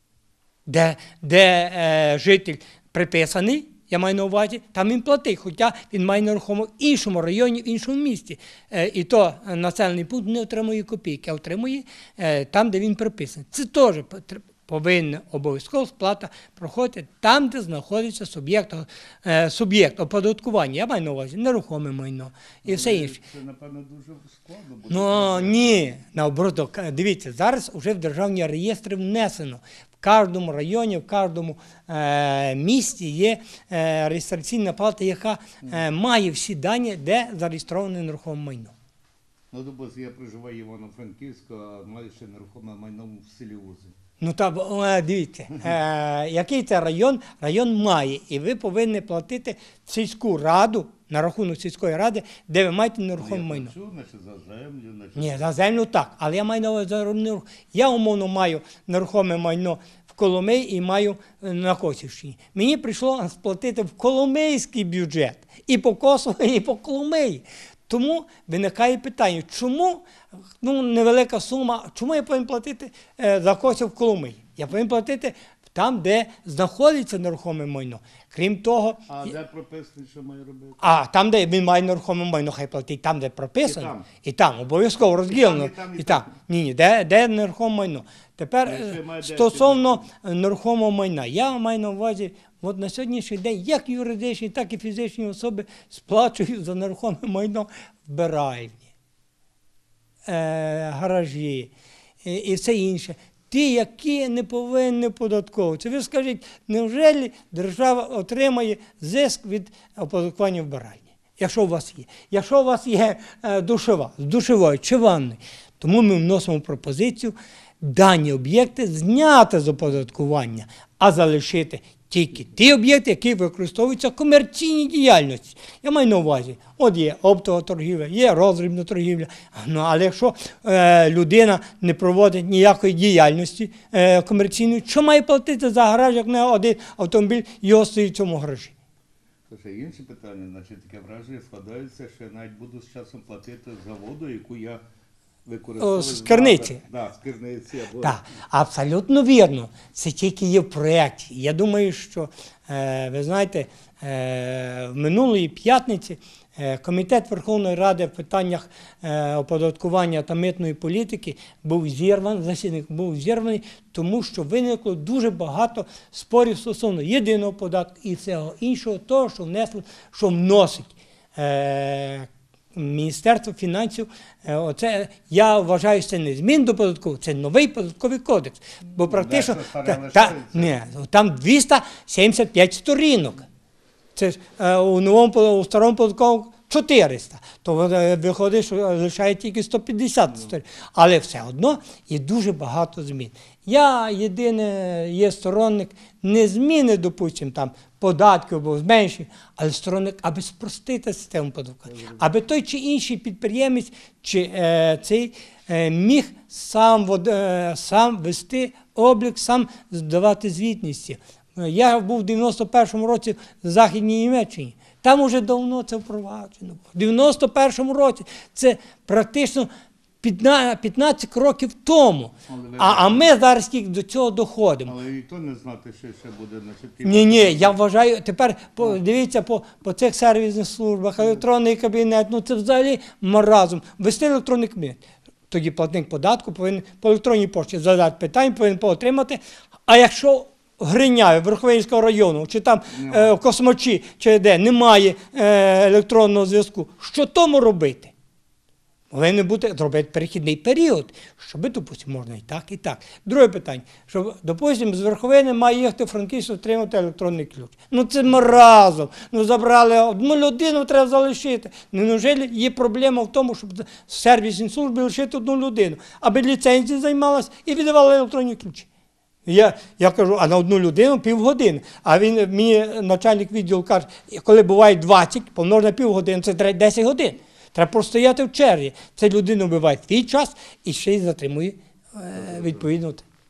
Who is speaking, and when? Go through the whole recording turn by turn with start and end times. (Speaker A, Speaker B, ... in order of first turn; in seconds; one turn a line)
Speaker A: 0.7-23.2
Speaker B: 22.6-25.9
Speaker A: 24.9-38.7
Speaker B: 39.5-43.9
Speaker A: 44.2-53.7
Speaker B: 53.2-55.5
Speaker A: 55.1-70.0
Speaker A: 70.6-79.1
Speaker B: 79.1-81.0
Speaker A: 80.8-98.9
Speaker B: 83.6-84.0
Speaker B: 85.3-86.3
Speaker B: 88.7-90.0
Speaker A: 100.2-101.7
Speaker A: 102.2-138.7
Speaker B: 139.5-144.8
Speaker B: 145.4-148.2
Speaker A: 145.8-146.8
Speaker A: 148.0-183.4
Speaker B: 179.0-180.7
Speaker A: 184.2-219.7
Speaker A: 220.2-224.9
Speaker B: 222.5-223.3
Speaker B: 224.8-227.8
Speaker A: 227.0-248.1
Speaker B: 242.9-243.3
Speaker A: 249.1-268.9
Speaker A: 269.4-283.2
Speaker B: 282.4-282.8